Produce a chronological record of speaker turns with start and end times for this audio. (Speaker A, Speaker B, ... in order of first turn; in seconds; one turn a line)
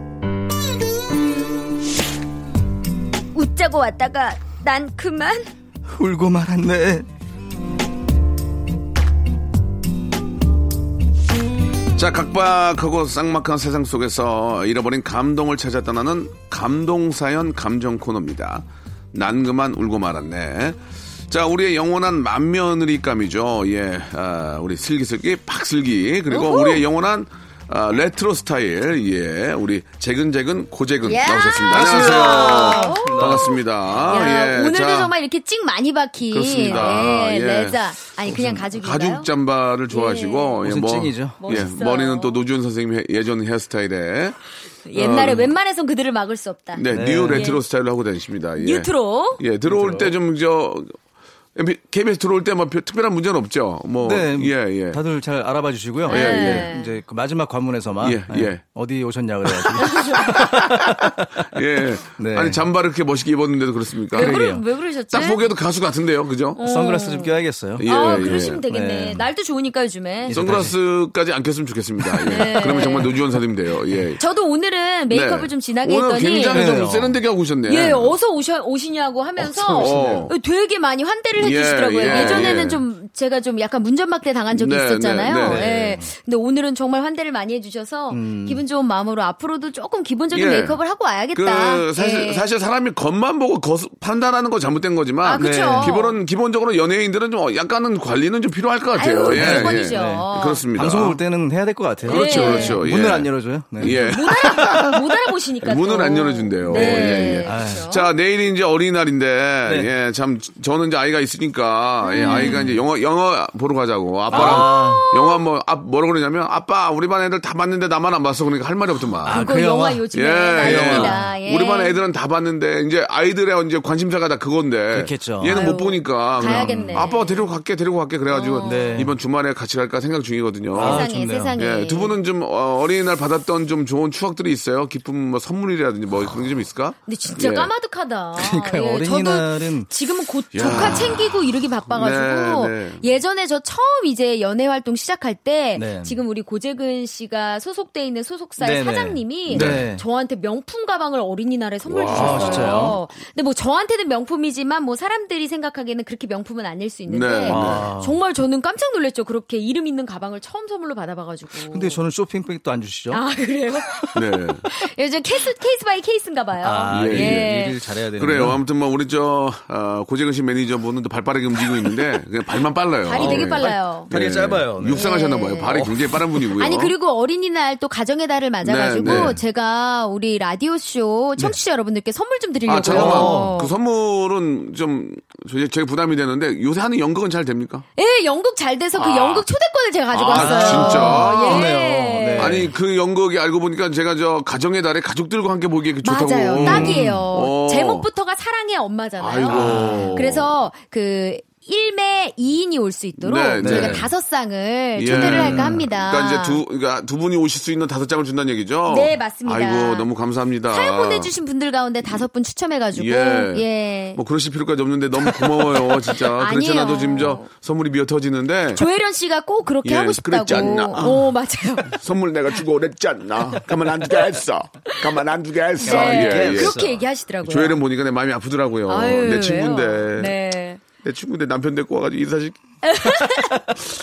Speaker A: 3.3-5.5
Speaker B: 5.9-7.1
Speaker C: 11.9-35.1
Speaker A: 26.3-26.8
Speaker A: 31.0-39.3
Speaker B: 31.7-34.1
Speaker C: 36.3-44.4
Speaker B: 36.6-37.1
Speaker A: 39.9-40.6
Speaker B: 40.6-41.6
Speaker A: 41.4-42.4
Speaker A: 44.9-47.6
Speaker C: 44.9-45.5
Speaker C: 46.7-51.0
Speaker B: 46.9-47.6
Speaker A: 48.6-49.4
Speaker B: 49.7-50.1
Speaker C: 51.5-55.0
Speaker B: 54.0-62.7
Speaker A: 56.0-56.9
Speaker C: 56.1-56.7
Speaker C: 58.0-58.6
Speaker C: 59.5-64.3
Speaker A: 59.8-60.3
Speaker A: 64.1-65.5
Speaker B: 64.1-64.6
Speaker C: 65.1-66.6
Speaker A: 66.6-67.3
Speaker B: 66.6-69.3
Speaker C: 67.8-68.6
Speaker A: 67.8-70.5
Speaker B: 70.2-70.8
Speaker C: 70.3-74.2
Speaker B: 72.0-73.1
Speaker A: 72.2-73.2
Speaker A: 74.2-76.8
Speaker C: 75.1-78.1
Speaker B: 76.5-77.2
Speaker A: 77.7-92.4
Speaker B: 79.5-80.3
Speaker C: 79.7-80.3
Speaker C: 81.3-82.8
Speaker B: 82.0-82.7
Speaker C: 84.5-85.8
Speaker B: 85.4-86.1
Speaker B: 88.1-88.6
Speaker C: 90.3-90.8
Speaker C: 91.3-101.2
Speaker A: 95.2-96.1
Speaker B: 95.3-96.0
Speaker A: 99.0-100.6
Speaker B: 99.3-104.8
Speaker A: 102.0-102.8
Speaker C: 102.1-104.8
Speaker A: 103.8-108.1
Speaker C: 105.6-119.5
Speaker B: 106.7-107.8
Speaker A: 112.0-112.7
Speaker B: 112.2-112.8
Speaker B: 114.3-115.1
Speaker A: 114.3-115.4
Speaker A: 119.2-122.0
Speaker B: 119.2-120.0
Speaker C: 120.1-137.7
Speaker B: 120.6-121.3
Speaker B: 124.9-125.7
Speaker A: 125.5-127.5
Speaker B: 126.4-127.1
Speaker A: 128.3-129.0
Speaker B: 128.6-129.2
Speaker B: 130.7-131.5
Speaker A: 130.8-132.2
Speaker A: 137.1-162.0
Speaker B: 138.3-139.9
Speaker C: 140.5-143.0
Speaker B: 140.6-141.1
Speaker B: 145.8-146.2
Speaker B: 148.6-150.0
Speaker C: 149.5-149.8
Speaker C: 151.8-153.0
Speaker B: 152.1-153.0
Speaker C: 157.1-157.9
Speaker B: 157.5-158.2
Speaker B: 161.6-163.2
Speaker A: 163.1-167.8
Speaker C: 164.1-164.7
Speaker B: 166.6-168.6
Speaker C: 166.9-167.5
Speaker C: 168.2-176.9
Speaker A: 173.1-174.1
Speaker B: 173.1-176.4
Speaker A: 174.9-175.8
Speaker A: 176.5-183.7
Speaker C: 178.6-179.4
Speaker B: 179.0-179.4
Speaker C: 182.7-187.8
Speaker B: 182.9-183.6
Speaker A: 188.0-192.6
Speaker C: 188.9-189.5
Speaker C: 190.1-191.7
Speaker B: 190.3-192.7
Speaker C: 192.4-198.1
Speaker A: 196.0-206.6
Speaker B: 196.6-197.3
Speaker C: 199.2-200.5
Speaker B: 199.5-200.2
Speaker C: 203.2-204.1
Speaker B: 203.6-204.1
Speaker C: 204.9-211.3
Speaker B: 205.0-205.8
Speaker A: 208.9-210.1
Speaker A: 210.7-214.2
Speaker C: 212.9-218.8
Speaker A: 215.2-217.5
Speaker A: 218.7-222.0
Speaker C: 219.8-221.3
Speaker C: 221.8-226.8
Speaker A: 225.8-227.8
Speaker B: 225.8-227.0
Speaker C: 227.4-230.4
Speaker A: 228.9-230.8
Speaker C: 231.0-233.3
Speaker A: 232.9-233.6